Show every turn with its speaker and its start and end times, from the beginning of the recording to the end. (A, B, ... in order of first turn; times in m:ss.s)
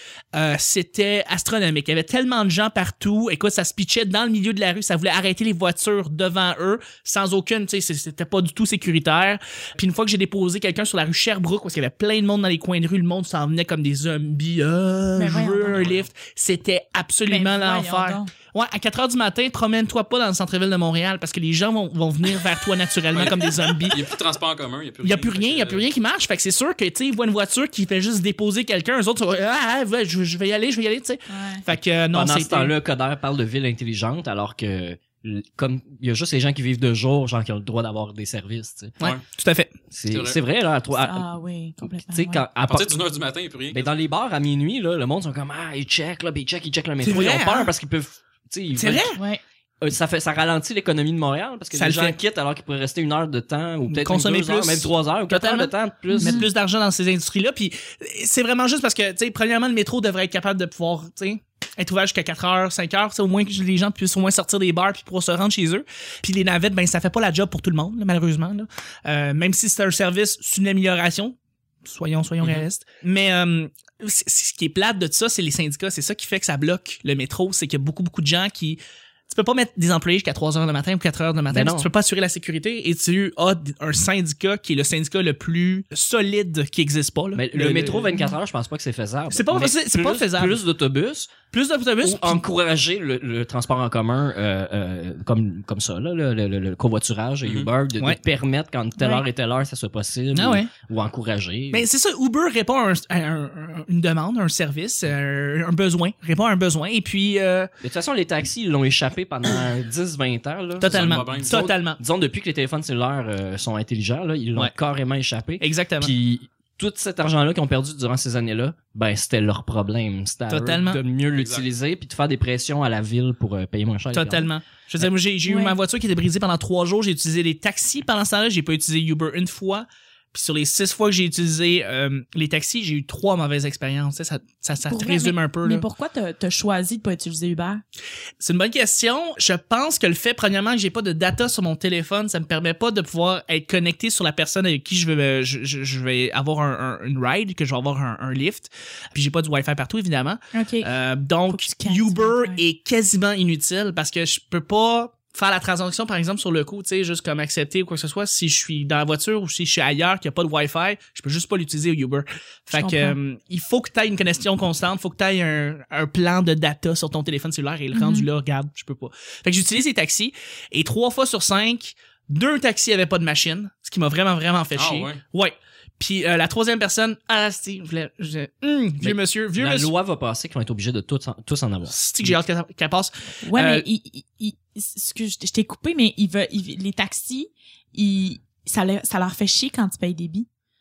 0:00.3-0:24.0 A
0:15.2-0:15.8 B
0:15.7-0:16.1 C
0:17.3-0:18.3 B
0:23.1-0:25.9 C
0:25.0-0:32.7 A
0:31.3-0:31.6 B
0:32.1-0:39.0 D
0:39.0-0:39.7 A
0:39.9-0:41.3 D
0:40.1-0:40.4 C
0:40.9-0:42.4 B
0:41.8-0:43.0 D
0:42.6-0:44.0 C
0:43.7-0:49.2 D
0:47.0-0:47.7 A
0:48.8-0:49.2 A
0:49.2-0:49.4 B
0:49.8-0:56.5 D
0:51.7-0:52.2 A
0:53.9-1:28.1 A
0:56.1-0:56.5 B
1:21.5-1:21.9 D
1:27.3-1:31.4 D
1:29.3-1:30.6 A
1:31.5-1:32.4 A
1:32.0-1:41.9 D
1:39.0-1:39.2 B
1:40.3-1:40.7 A
1:41.7-1:47.7 A
1:47.8-2:04.5 D
1:50.8-1:52.0 A
1:50.8-1:51.6 C
1:55.6-1:56.1 A
2:00.5-2:01.0 A
2:01.3-2:01.7 C
2:04.1-2:15.9 A
2:05.5-2:05.8 B
2:14.9-2:17.8 B
2:18.4-2:59.9 A
2:30.5-2:30.9 B
2:31.5-2:32.6 B
2:42.8-2:43.2 B
2:47.9-2:48.3 B
2:54.8-2:55.2 C
2:59.0-3:02.4 D
3:01.9-3:03.9 A
3:03.5-3:10.5 B